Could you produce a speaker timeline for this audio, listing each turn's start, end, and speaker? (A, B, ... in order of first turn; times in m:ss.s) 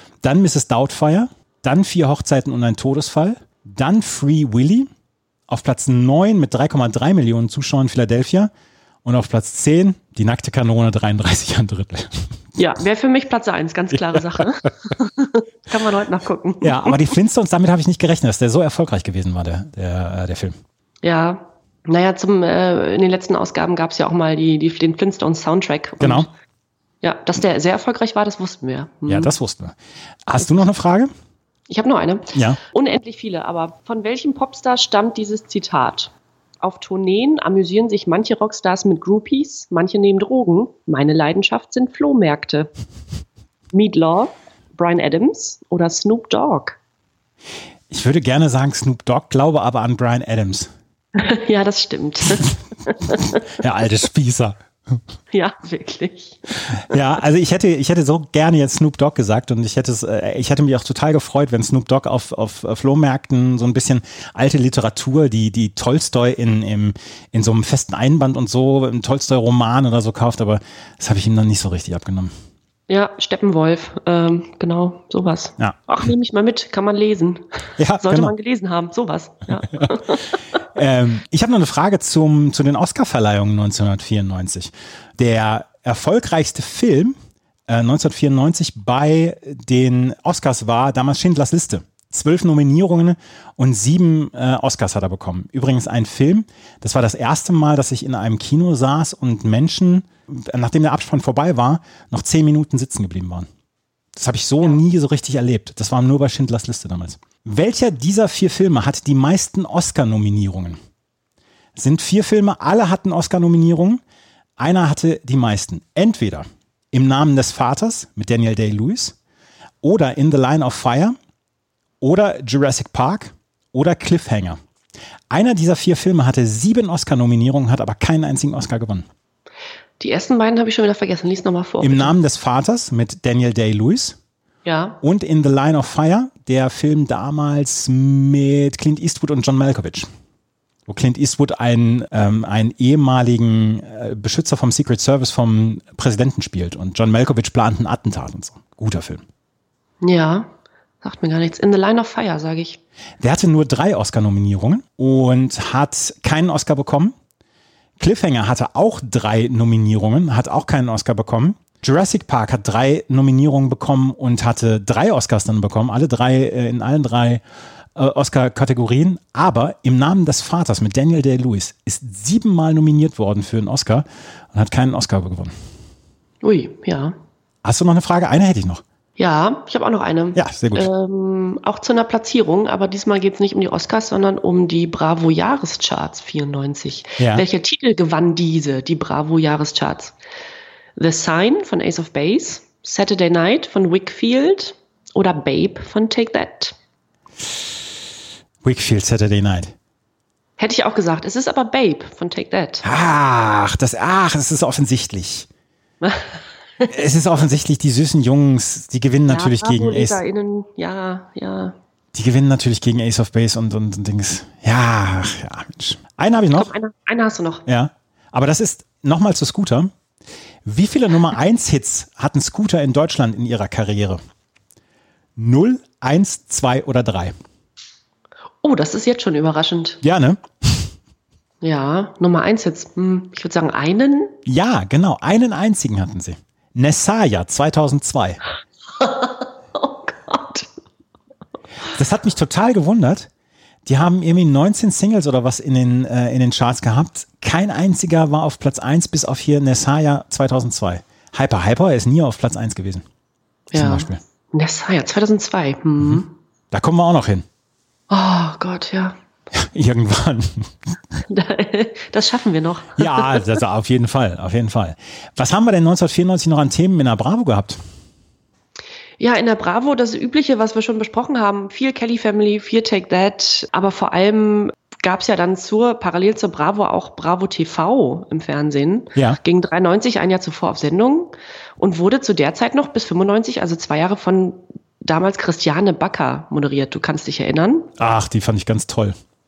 0:00.2-0:04.9 A
0:05.5-0:08.5 A
0:09.0-0:12.3 A
0:12.6-0:17.0 B
0:14.0-0:14.4 A
0:16.6-0:20.6 A
0:21.0-0:26.3 B
0:26.0-0:26.3 A
0:27.0-0:29.3 B
0:29.1-0:31.1 A
0:31.7-0:42.7 B
0:32.3-0:32.6 A
0:43.7-0:46.8 B
0:47.9-0:50.7 A
0:51.2-0:53.3 B
0:53.6-0:55.0 A
0:55.3-0:57.0 B
0:56.9-1:12.3 A
1:12.9-1:17.4 B
1:17.8-1:18.3 A
1:18.0-1:20.4 B
1:20.7-1:27.2 A
1:27.7-1:43.5 A
1:44.2-1:50.8 A
1:51.8-1:54.0 A
1:54.6-1:59.2 A
1:59.8-2:01.2 A
2:02.0-2:04.6 A
2:05.3-2:09.1 A
2:10.0-2:12.1 B
2:11.8-2:14.2 A
2:14.6-2:15.0 B
2:15.0-2:20.1 A
2:20.9-2:29.2 A
2:30.0-2:30.5 B
2:31.0-2:32.8 B
2:33.2-2:37.2 A
2:38.0-2:47.4 A
2:48.0-2:55.5 A
2:56.4-2:57.2 B
2:57.6-2:58.8 A
2:59.2-3:10.1 B
3:00.4-3:00.9 A
3:07.2-3:07.4 A
3:11.0-3:16.8 B
3:18.6-3:19.7 A
3:20.6-3:22.8 B
3:22.8-3:25.5 A
3:26.0-3:26.9 B
3:26.9-3:30.2 A
3:29.3-3:31.8 B
3:32.1-3:36.7 A
3:36.5-3:37.6 B
3:37.7-3:39.9 A
3:40.7-3:44.2 A
3:45.4-3:47.3 A
3:48.6-3:50.0 B
3:50.0-3:50.9 A
3:51.6-3:54.4 B
3:54.5-3:58.4 A
3:59.0-4:00.7 B
4:01.9-4:03.3 A
4:03.9-4:13.0 A
4:13.7-4:16.3 B
4:13.7-4:14.2 A
4:16.0-4:17.4 A
4:18.1-4:19.2 B
4:19.6-4:20.7 A
4:21.3-4:23.4 B
4:23.0-4:27.8 A
4:29.2-4:47.9 B
4:48.0-4:49.2 A